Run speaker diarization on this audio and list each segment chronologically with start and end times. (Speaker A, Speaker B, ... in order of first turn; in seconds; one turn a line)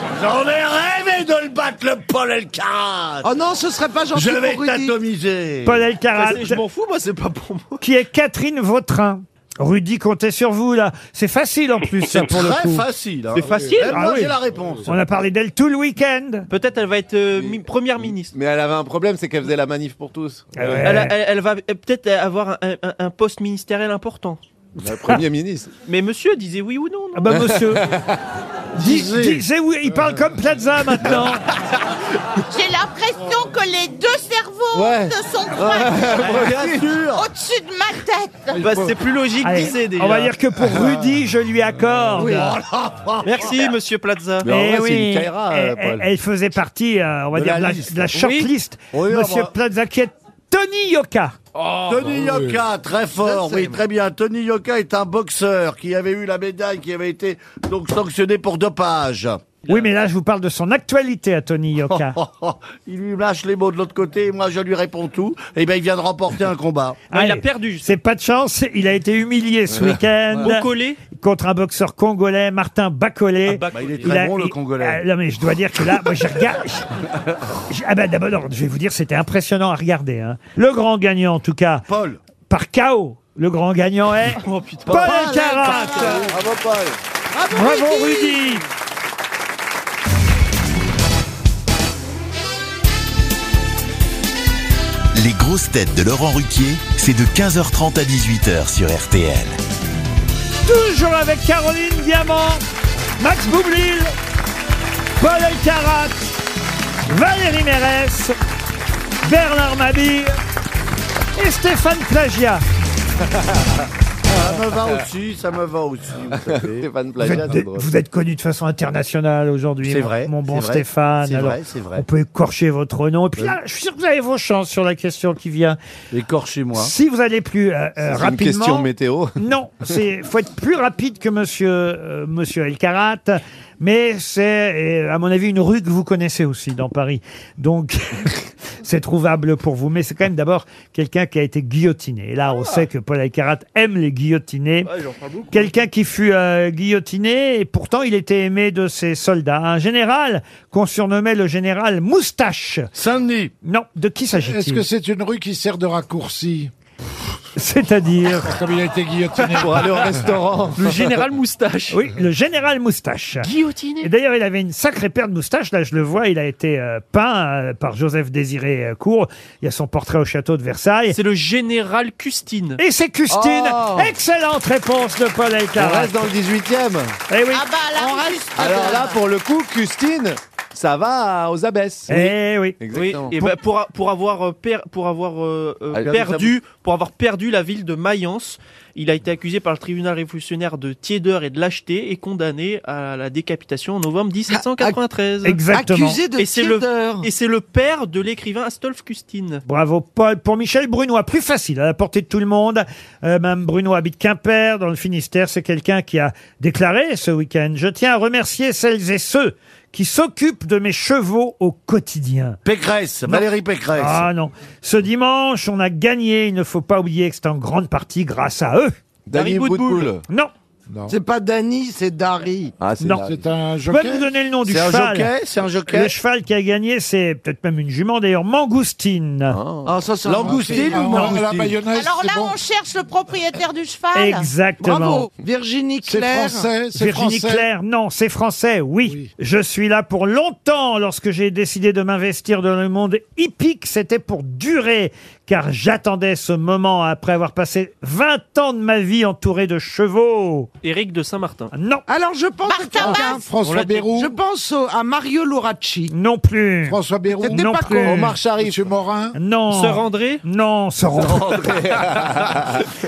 Speaker A: 0.1-3.3
Speaker B: 3.2-5.0
Speaker A: 4.1-5.8
Speaker C: 5.6-6.6
Speaker D: 6.2-7.8
Speaker C: 7.8-12.8
Speaker A: 12.2-15.0
Speaker D: 13.3-14.0
Speaker E: 13.5-13.8
Speaker C: 13.9-16.5
Speaker E: 14.5-14.8
Speaker D: 16.5-18.3
Speaker F: 17.4-17.6
Speaker F: 18.3-20.9
Speaker C: 20.6-21.1
Speaker D: 20.8-24.4
Speaker F: 24.8-25.7
Speaker D: 25.9-27.4
Speaker C: 27.1-27.9
Speaker F: 27.5-28.0
Speaker C: 28.8-31.4
Speaker A: 28.8-29.4
Speaker G: 32.5-36.3
Speaker F: 34.7-35.1
Speaker F: 35.7-36.9
Speaker A: 36.0-37.3
Speaker G: 37.1-38.7
Speaker D: 38.6-40.3
Speaker E: 38.6-38.9
Speaker C: 39.4-42.6
Speaker E: 40.7-41.0
Speaker A: 42.2-43.7
Speaker B: 42.2-42.4
Speaker D: 43.2-44.5
Speaker F: 44.4-46.1
Speaker C: 44.5-51.4
Speaker A: 47.3-48.1
Speaker D: 48.1-48.5
Speaker A: 48.9-49.5
Speaker A: 51.9-59.5
Speaker E: 52.1-52.6
Speaker B: 53.2-53.8
Speaker C: 59.7-62.2
Speaker A: 61.9-67.0
Speaker D: 67.1-67.9
Speaker C: 67.1-76.9
Speaker D: 70.3-71.0
Speaker D: 73.5-74.1
Speaker A: 73.7-75.0
Speaker C: 77.7-81.9
Speaker A: 81.9-82.2
Speaker C: 82.5-86.2
Speaker D: 84.4-86.2
Speaker A: 84.9-86.5
Speaker B: 85.6-86.2
Speaker F: 86.3-87.0
Speaker B: 87.3-88.5
Speaker C: 87.5-88.6
Speaker H: 95.1-99.6
Speaker C: 100.7-102.6
Speaker C: 103.2-104.1
Speaker C: 105.2-106.3
Speaker C: 107.1-108.4
Speaker C: 109.2-110.4
Speaker C: 111.4-112.6
Speaker A: 114.3-116.9
Speaker F: 116.5-117.9
Speaker C: 117.2-125.8
Speaker A: 119.8-122.0
Speaker A: 126.1-126.9
Speaker C: 126.8-144.9
Speaker F: 128.0-129.3
Speaker D: 144.8-145.7
Speaker C: 145.5-152.9
Speaker A: 152.9-153.5
Speaker C: 153.6-154.8
Speaker E: 154.4-156.7
Speaker C: 157.6-158.6
Speaker E: 158.4-160.3
Speaker F: 159.6-161.1
Speaker D: 160.8-162.0
Speaker C: 161.9-163.5
Speaker D: 163.4-164.1
Speaker C: 164.0-171.2
Speaker D: 171.1-172.8
Speaker C: 172.8-176.3
Speaker F: 175.8-177.2
Speaker C: 177.3-177.6
Speaker G: 177.5-179.2
Speaker B: 178.0-179.1
Speaker F: 178.6-183.3
Speaker C: 182.1-182.8
Speaker D: 182.9-195.6
Speaker F: 185.9-186.5
Speaker B: 194.5-195.0
Speaker C: 195.4-196.2
Speaker B: 195.7-197.3
Speaker D: 196.4-199.6
Speaker C: 199.7-212.6
Speaker A: 212.7-214.3
Speaker C: 213.3-218.9
Speaker F: 219.3-220.2
Speaker D: 219.3-220.1
Speaker E: 220.9-221.2
Speaker B: 221.1-222.7
Speaker F: 222.8-223.4
Speaker C: 223.0-223.3
Speaker E: 223.2-224.3
Speaker C: 223.9-225.3
Speaker A: 224.7-226.2
Speaker C: 225.9-229.6
Speaker F: 229.5-229.9
Speaker B: 229.9-231.3
Speaker A: 230.2-231.8
Speaker E: 230.4-232.6
Speaker G: 231.8-234.5
Speaker C: 234.1-235.3
Speaker B: 234.8-236.7
Speaker E: 236.0-237.7
Speaker C: 236.9-250.7
Speaker E: 239.0-239.3
Speaker D: 250.8-251.7
Speaker C: 251.7-252.1
Speaker B: 252.1-253.4
Speaker G: 252.7-253.4
Speaker E: 253.0-254.4
Speaker D: 253.6-254.1
Speaker B: 254.1-256.1
Speaker C: 256.1-258.4
Speaker E: 256.9-257.7
Speaker B: 257.3-258.4
Speaker F: 258.1-258.8
Speaker E: 258.6-259.4
Speaker C: 259.4-261.6
Speaker D: 259.7-260.4
Speaker F: 261.5-262.8
Speaker A: 261.5-261.8